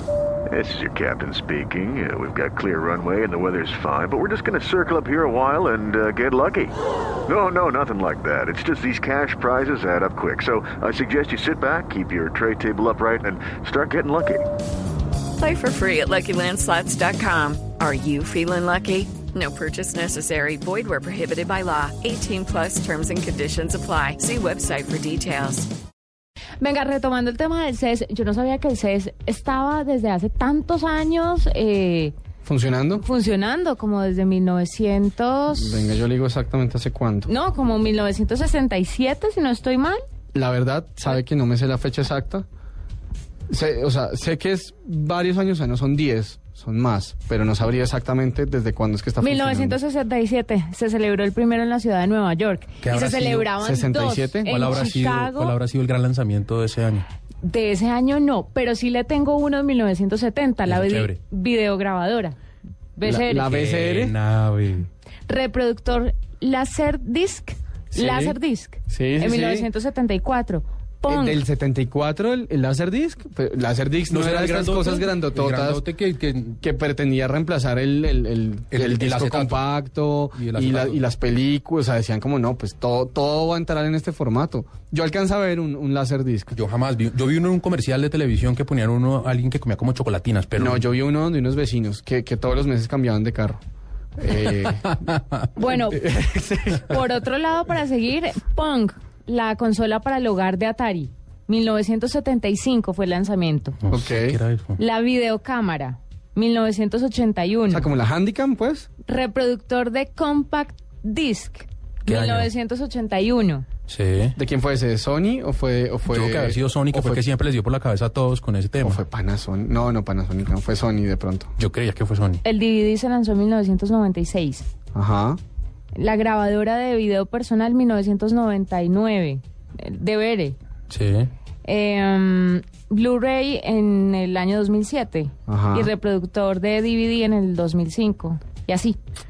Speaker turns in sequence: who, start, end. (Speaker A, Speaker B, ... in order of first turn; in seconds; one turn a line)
Speaker A: 0.5-6.7
Speaker A: 7.3-14.4
Speaker B: 15.3-25.7
Speaker C: 26.6-32.1
Speaker D: 32.4-33.0
Speaker C: 33.0-36.0
Speaker D: 35.5-37.3
Speaker C: 37.2-40.0
Speaker D: 40.3-42.4
Speaker D: 43.5-49.8
Speaker C: 49.2-55.6
Speaker E: 52.8-53.5
Speaker D: 53.6-54.6
Speaker E: 54.5-57.0
Speaker C: 57.4-62.4
Speaker E: 60.7-61.2
Speaker C: 63.0-63.5
Speaker D: 63.0-64.2
Speaker E: 63.4-64.9
Speaker C: 65.3-71.4
Speaker D: 67.9-68.4
Speaker D: 68.9-69.7
Speaker D: 71.0-75.8
Speaker E: 74.1-76.6
Speaker D: 76.6-86.6
Speaker E: 78.7-79.6
Speaker E: 80.3-81.0
Speaker E: 86.5-90.8
Speaker D: 90.5-93.6
Speaker D: 94.2-95.0
Speaker C: 95.5-96.0
Speaker D: 95.6-97.0
Speaker C: 96.8-103.8
Speaker E: 103.8-104.8
Speaker D: 103.9-104.4
Speaker C: 104.8-107.9
Speaker D: 107.7-108.9
Speaker C: 109.0-113.7
Speaker E: 112.1-112.5
Speaker E: 113.9-114.3
Speaker D: 114.3-117.2
Speaker E: 116.1-119.0
Speaker D: 118.8-121.5
Speaker E: 121.6-122.4
Speaker C: 122.4-124.7
Speaker D: 124.9-125.4
Speaker C: 125.9-130.6
Speaker E: 130.9-131.3
Speaker C: 131.6-139.0
Speaker D: 135.5-135.9